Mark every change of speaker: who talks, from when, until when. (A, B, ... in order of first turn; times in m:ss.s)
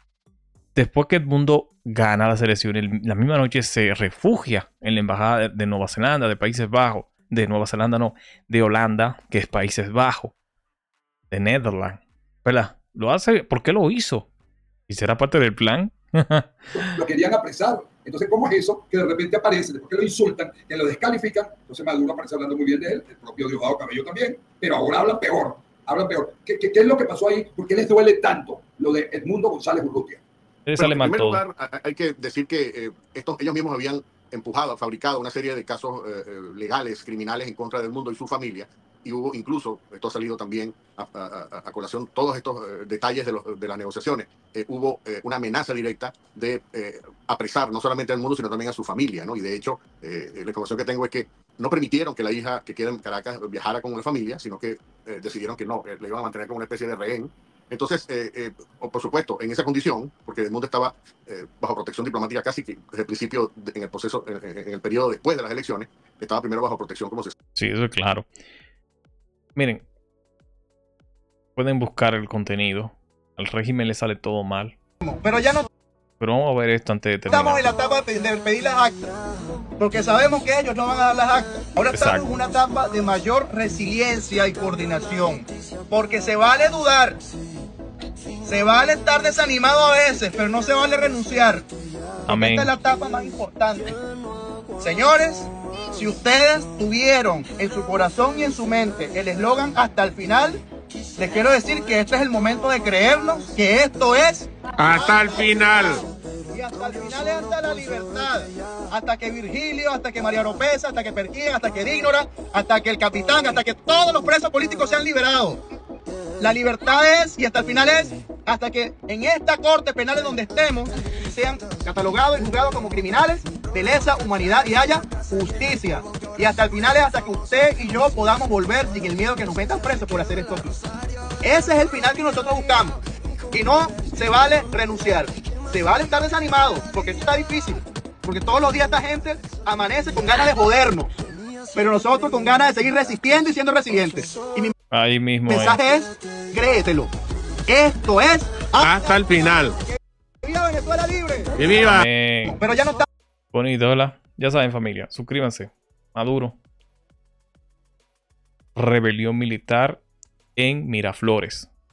0:00.7-0:10.3 A
0:11.3-0:14.3 A
0:14.9-0:16.5 A
0:16.7-0:30.2 B
0:30.6-0:31.4 A
0:30.8-1:07.3 C
1:07.5-1:08.3 A
1:09.6-1:09.8 A
1:11.6-1:14.7 A
1:15.0-1:15.7 D
1:16.2-1:17.6 A
1:17.3-1:19.1 D
1:19.8-1:27.2 D
1:21.9-1:22.2 A
1:28.4-1:31.6 D
1:32.3-1:32.7 A
1:32.3-1:34.0 D
1:34.8-1:40.6 D
1:41.2-1:46.0 D
1:44.8-1:46.0 E
1:46.5-1:55.6 D
1:56.4-2:10.8 D
2:11.4-2:13.0 D
2:13.5-2:21.1 D
2:21.7-2:24.7 D
2:24.9-2:25.8 A
2:25.5-2:27.1 D
2:27.7-2:29.6 D
2:28.8-2:29.8 E
2:30.4-2:31.5 D
2:31.6-2:32.1 E
2:31.8-2:32.6 A
2:32.5-2:33.0 D
2:33.5-2:36.6 A
2:38.7-2:40.0 A
2:40.6-2:41.7 A